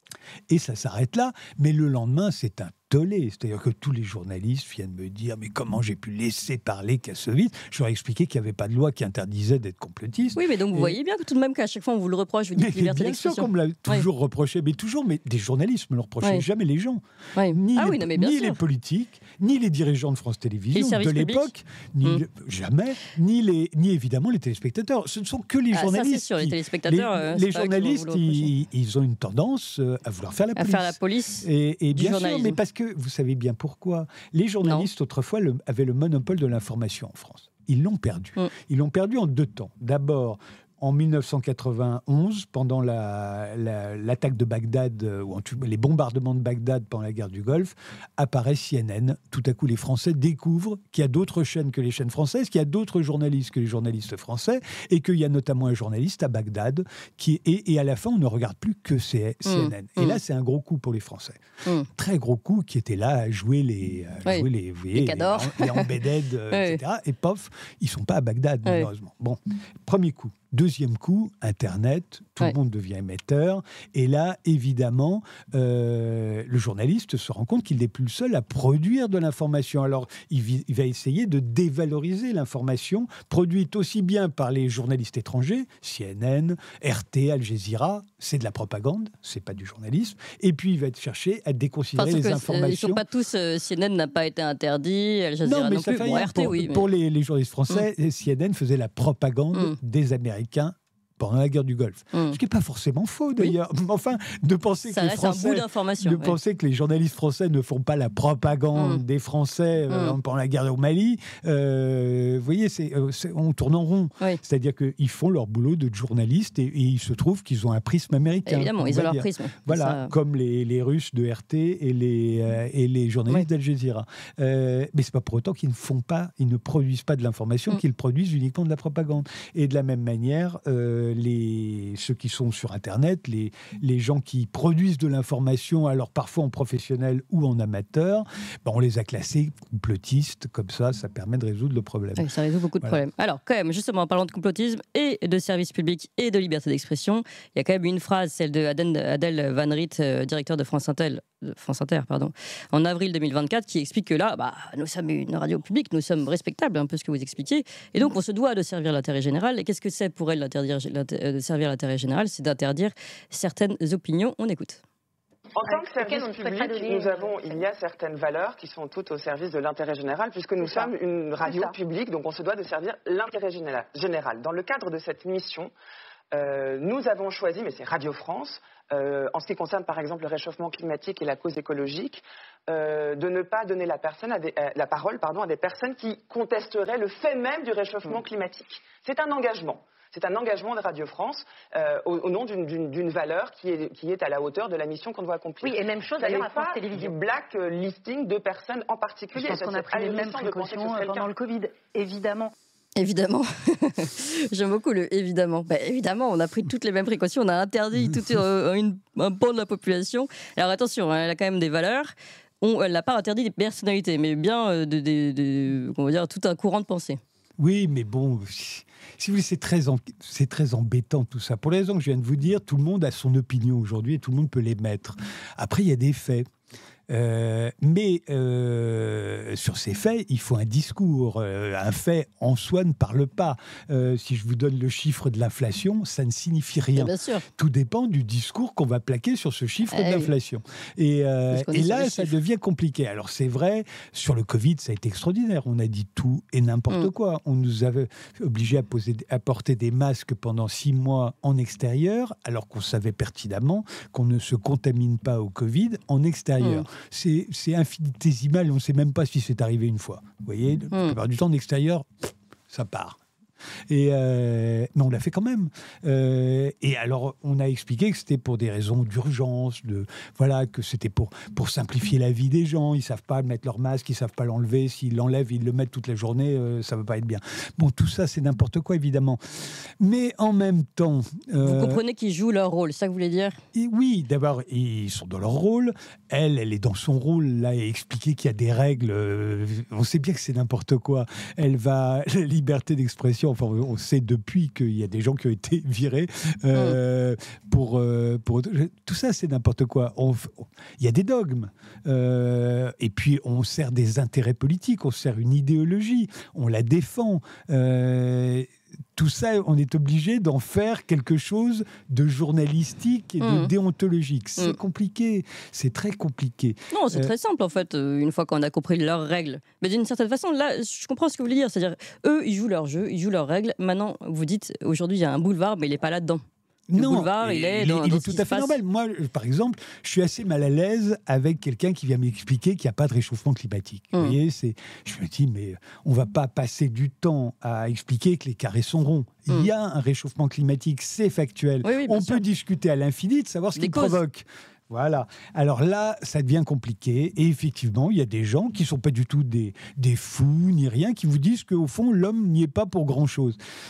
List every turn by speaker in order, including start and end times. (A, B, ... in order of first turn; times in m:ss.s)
0:00.5-0:11.0 A
0:10.3-0:14.1 B
0:12.5-1:33.0 A
0:17.4-0:18.6 B
0:20.7-0:21.5 B
0:25.7-0:28.5 B
0:30.6-0:32.6 B
0:59.4-1:00.2 B
1:04.2-1:05.9 B
1:06.5-1:06.8 B
1:32.0-1:36.8 B
1:35.4-2:22.3 A
1:42.1-1:42.4 B
1:44.9-1:46.4 B
1:48.7-1:49.0 B
1:49.9-1:50.2 B
1:58.4-2:00.1 B
2:22.2-2:44.8 B
2:45.5-2:55.7 C
2:45.7-2:47.6 D
2:50.6-2:50.9 D
2:51.4-2:51.7 D
2:56.3-3:21.3 C
3:15.6-3:17.1 D
3:19.3-3:22.5 D
3:23.0-3:37.2 B
3:37.6-3:46.5 A
3:47.1-4:23.2 A
3:57.0-3:57.4 B
3:59.9-4:00.3 B
4:01.5-4:02.4 B
4:16.6-4:16.9 B
4:23.9-4:39.4 A
4:40.0-4:42.0 A
4:41.6-4:43.6 B
4:43.7-5:17.3 A
5:13.4-5:13.7 B
5:16.9-5:26.4 B
5:26.9-5:53.6 A
5:26.9-5:28.8 B
5:41.8-5:42.4 B
5:43.8-5:44.2 B